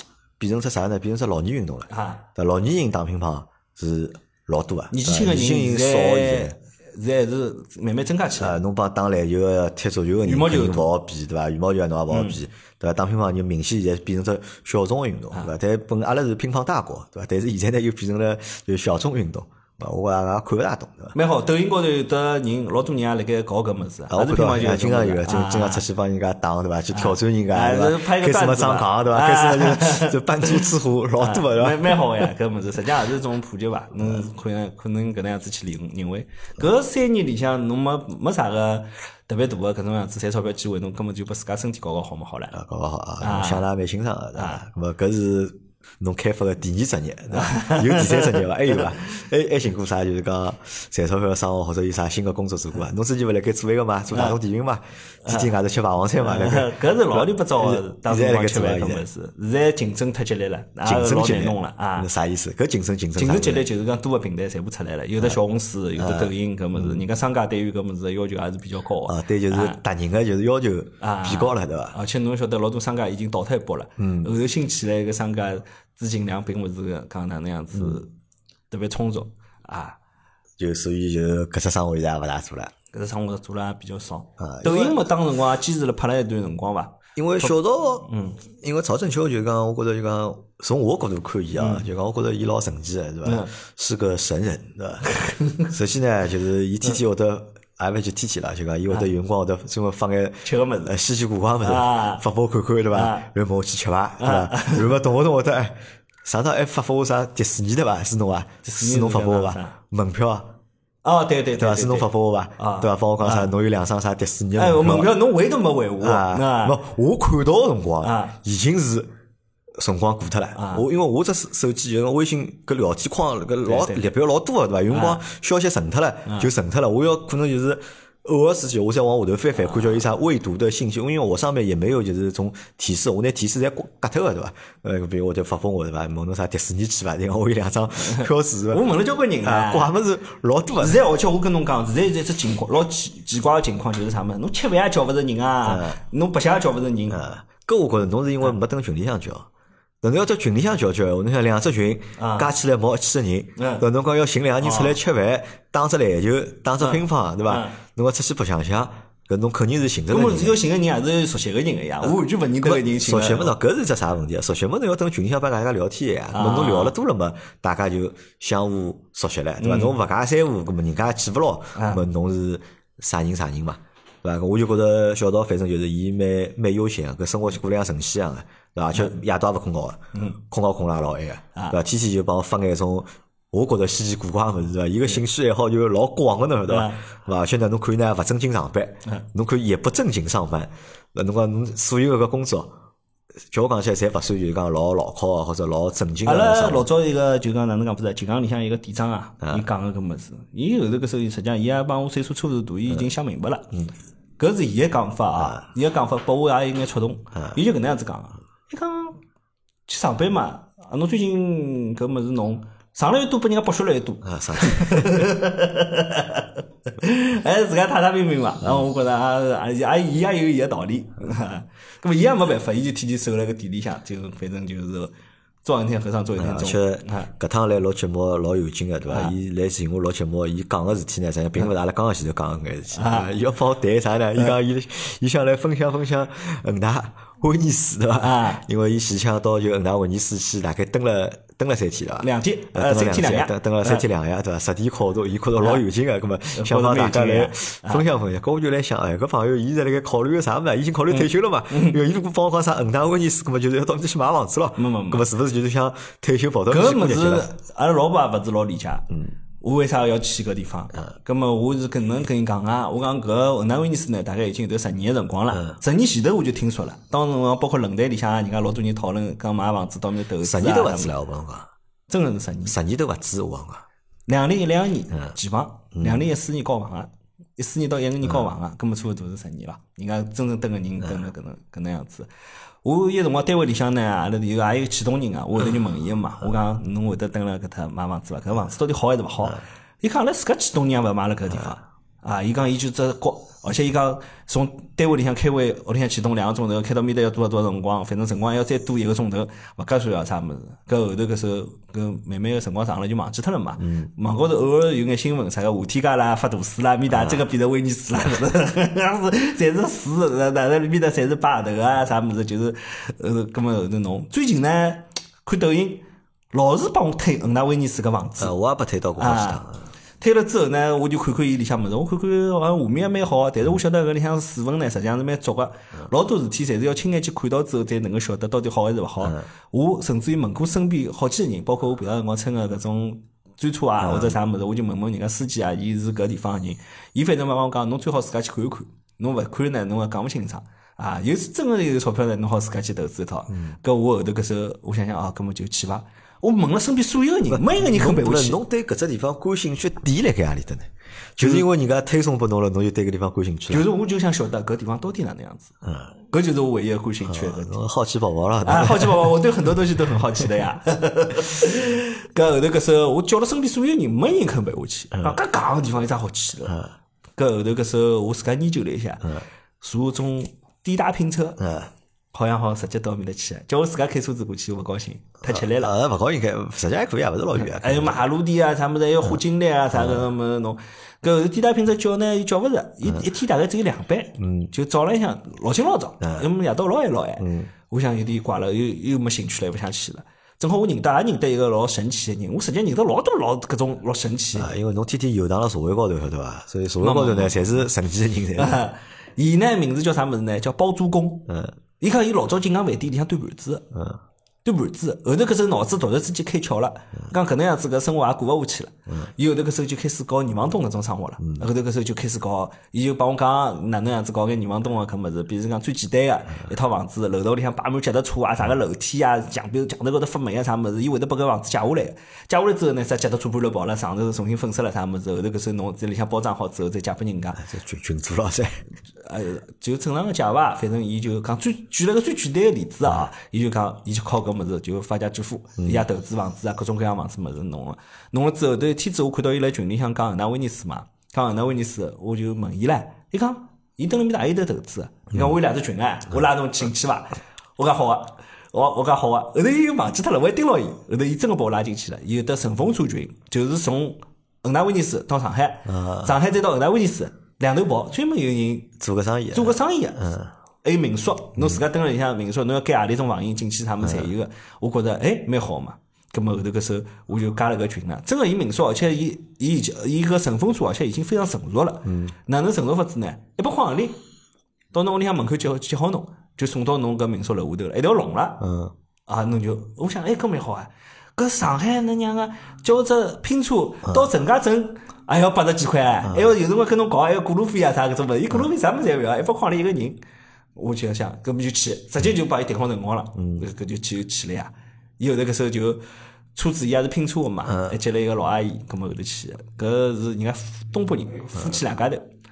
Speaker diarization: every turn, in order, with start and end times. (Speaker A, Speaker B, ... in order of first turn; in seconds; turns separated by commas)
Speaker A: 0.4-6.5, Speaker B: 1.9-2.2, Speaker B: 4.9-8.6, Speaker A: 8.4-21.1, Speaker B: 10.2-10.9, Speaker B: 12.1-12.4, Speaker B: 21.1-25.8, Speaker A: 24.1-32.1, Speaker B: 26.9-42.5, Speaker A: 42.5-59.0, Speaker B: 43.2-43.7, Speaker B: 44.4-44.6, Speaker B: 47.3-48.8, Speaker B: 54.1-54.4, Speaker B: 55.2-55.5, Speaker B: 56.2-62.1, Speaker A: 60.8-63.6, Speaker B: 63.1-69.8, Speaker A: 66.0-67.0, Speaker A: 69.0-72.0, Speaker B: 71.0-78.1, Speaker A: 74.0-74.3, Speaker A: 77.7-78.0, Speaker B: 78.7-80.0, Speaker A: 80.6-82.7, Speaker B: 82.9-88.4, Speaker A: 84.4-85.0, Speaker A: 87.2-95.1, Speaker B: 91.6-91.9, Speaker B: 93.2-93.5, Speaker B: 95.1-95.7, Speaker A: 95.7-110.6, Speaker B: 100.4-100.9, Speaker B: 101.6-102.2, Speaker B: 102.9-103.3, Speaker B: 104.2-104.9, Speaker B: 108.6-109.8, Speaker B: 111.0-113.5, Speaker A: 111.5-115.1, Speaker B: 114.6-116.8, Speaker A: 116.0-119.1, Speaker B: 118.0-118.3, Speaker A: 119.8-138.8, Speaker B: 120.5-120.8, Speaker B: 123.6-124.0, Speaker B: 124.9-125.2, Speaker B: 129.6-130.0, Speaker B: 138.0-139.9, Speaker A: 139.4-141.0, Speaker B: 140.8-147.2, Speaker A: 145.6-146.0, Speaker A: 147.1-149.5, Speaker A: 150.0-160.6, Speaker B: 152.2-152.5, Speaker B: 153.6-153.8, Speaker B: 154.6-155.0, Speaker B: 156.8-157.8, Speaker B: 160.1-163.5, Speaker A: 162.0-192.7, Speaker B: 166.3-166.9, Speaker B: 169.6-169.9, Speaker B: 171.7-172.0, Speaker B: 180.1-180.4, Speaker B: 186.7-187.0, Speaker A: 193.5-196.9, Speaker B: 196.2-203.7, Speaker B: 204.4-209.2, Speaker A: 205.4-205.6, Speaker B: 209.9-225.1, Speaker A: 214.2-215.3, Speaker B: 225.6-227.3, Speaker A: 226.4-257.5, Speaker B: 229.1-229.3, Speaker B: 232.9-233.3, Speaker B: 238.2-238.6, Speaker B: 242.2-244.0, Speaker B: 246.5-248.1, Speaker B: 251.1-252.0, Speaker B: 254.8-255.3, Speaker B: 256.7-259.1, Speaker B: 259.6-271.1, Speaker A: 270.4-271.7, Speaker B: 272.1-272.7, Speaker A: 272.6-273.8, Speaker B: 274.3-282.3, Speaker A: 275.9-276.3, Speaker B: 282.8-318.5, Speaker A: 303.8-304.1, Speaker A: 307.1-307.4, Speaker A: 318.4-319.9, Speaker B: 319.2-319.6, Speaker B: 320.2-348.6, Speaker A: 329.2-329.5, Speaker A: 334.0-334.4, Speaker A: 343.5-343.8, Speaker A: 347.5-353.9, Speaker B: 351.4-351.6, Speaker B: 353.7-355.7, Speaker A: 355.8-356.1, Speaker B: 356.3-357.8, Speaker A: 357.2-359.4, Speaker B: 358.6-366.8, Speaker A: 366.7-366.9, Speaker B: 367.4-371.6, Speaker A: 371.6-371.9, Speaker B: 372.3-375.9, Speaker A: 375.4-378.2, Speaker B: 377.6-394.7, Speaker A: 379.9-380.3, Speaker A: 384.4-384.7, Speaker A: 386.2-386.4, Speaker A: 387.4-387.7, Speaker A: 394.5-398.8, Speaker B: 397.0-397.8, Speaker B: 398.5-403.9, Speaker A: 401.5-401.7, Speaker A: 403.9-404.2, Speaker B: 404.6-427.7, Speaker A: 411.4-411.7, Speaker A: 427.6-428.8, Speaker B: 429.2-458.9, Speaker A: 455.9-456.4, Speaker A: 459.0-460.5, Speaker B: 459.5-460.2, Speaker B: 460.8-474.2, Speaker A: 461.6-461.8, Speaker A: 464.0-464.3, Speaker A: 472.0-472.3, Speaker B: 474.9-478.6, Speaker A: 478.6-478.9, Speaker B: 479.3-490.2, Speaker A: 486.2-486.5, Speaker B: 490.8-496.0, Speaker A: 493.4-493.6, Speaker B: 496.5-502.2, Speaker A: 497.6-498.0